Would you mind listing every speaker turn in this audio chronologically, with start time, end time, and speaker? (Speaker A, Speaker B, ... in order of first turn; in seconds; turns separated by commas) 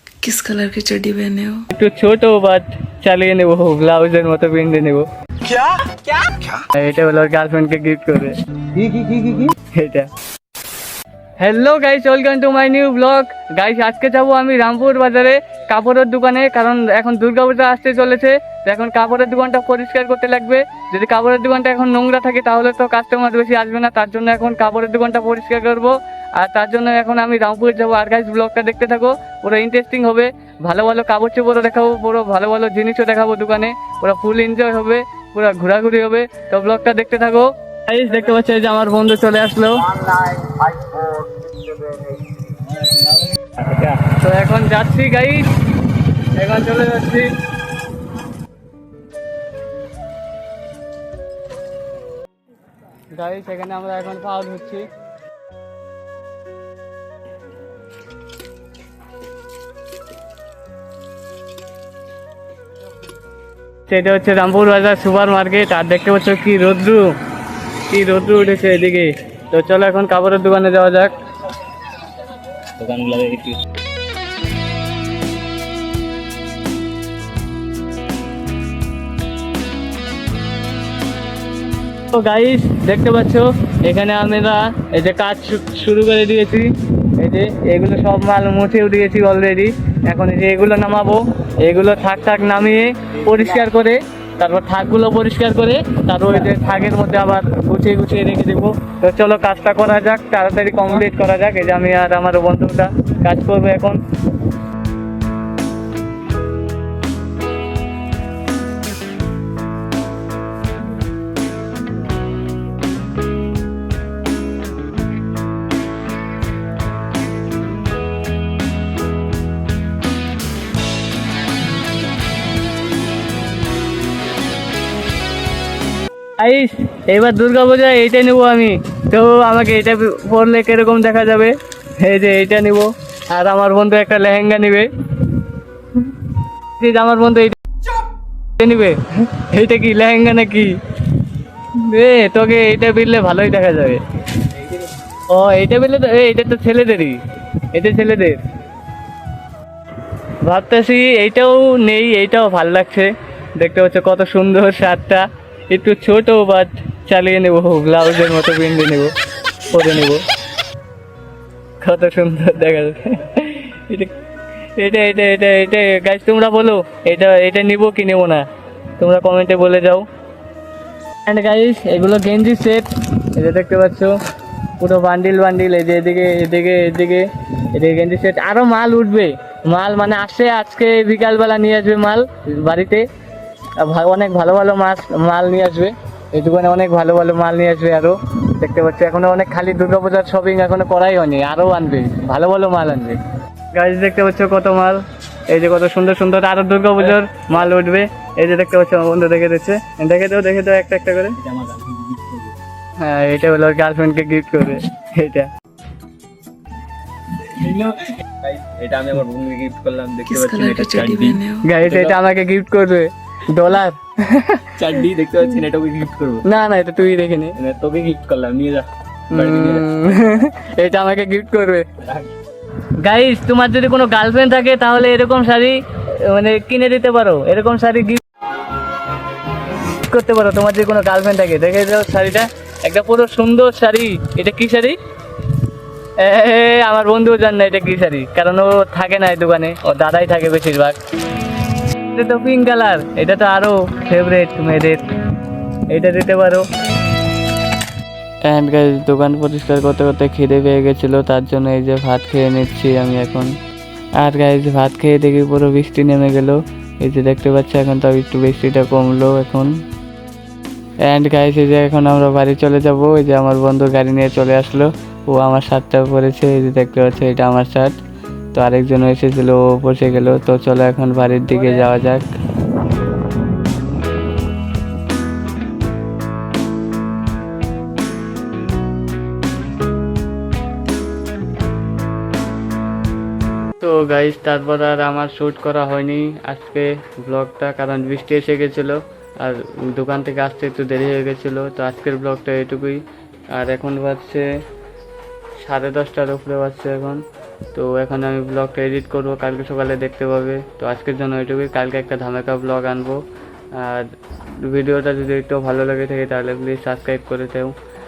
Speaker A: 0.2-1.6, Speaker B: 1.7-5.6, Speaker B: 6.7-10.1, Speaker B: 11.4-41.8, Speaker C: 42.7-44.1, Speaker B: 44.1-45.5, Speaker B: 46.4-47.3, Speaker B: 53.1-54.9, Speaker B: 63.9-67.1, Speaker B: 67.9-71.1, Speaker C: 72.8-73.6, Speaker B: 82.1-104.0, Speaker B: 126.4-135.4, Speaker B: 135.9-137.6, Speaker B: 138.6-141.2, Speaker B: 141.8-144.7, Speaker B: 145.3-147.2, Speaker B: 147.7-148.4, Speaker B: 150.4-159.1, Speaker B: 159.7-160.2, Speaker B: 161.8-164.2, Speaker B: 164.8-168.5, Speaker B: 169.0-170.1, Speaker B: 171.2-174.2, Speaker B: 174.8-183.1, Speaker B: 183.8-193.2, Speaker B: 193.7-195.0, Speaker B: 195.5-201.4, Speaker C: 201.4-202.5, Speaker B: 203.0-205.5, Speaker C: 207.4-212.2, Speaker A: 210.3-211.7, Speaker B: 211.6-214.7, Speaker C: 214.8-216.5, Speaker B: 216.5-217.6, Speaker C: 217.6-220.1, Speaker B: 219.3-221.9, Speaker C: 222.0-222.3, Speaker B: 223.0-228.2, Speaker B: 229.9-235.0, Speaker B: 236.2-241.0, Speaker B: 242.1-245.0, Speaker B: 245.9-246.7, Speaker B: 248.4-253.5, Speaker B: 254.2-259.7, Speaker B: 261.1-268.0, Speaker B: 268.5-272.3, Speaker B: 283.8-294.5, Speaker B: 295.6-297.2, Speaker B: 297.7-303.2, Speaker B: 303.8-307.7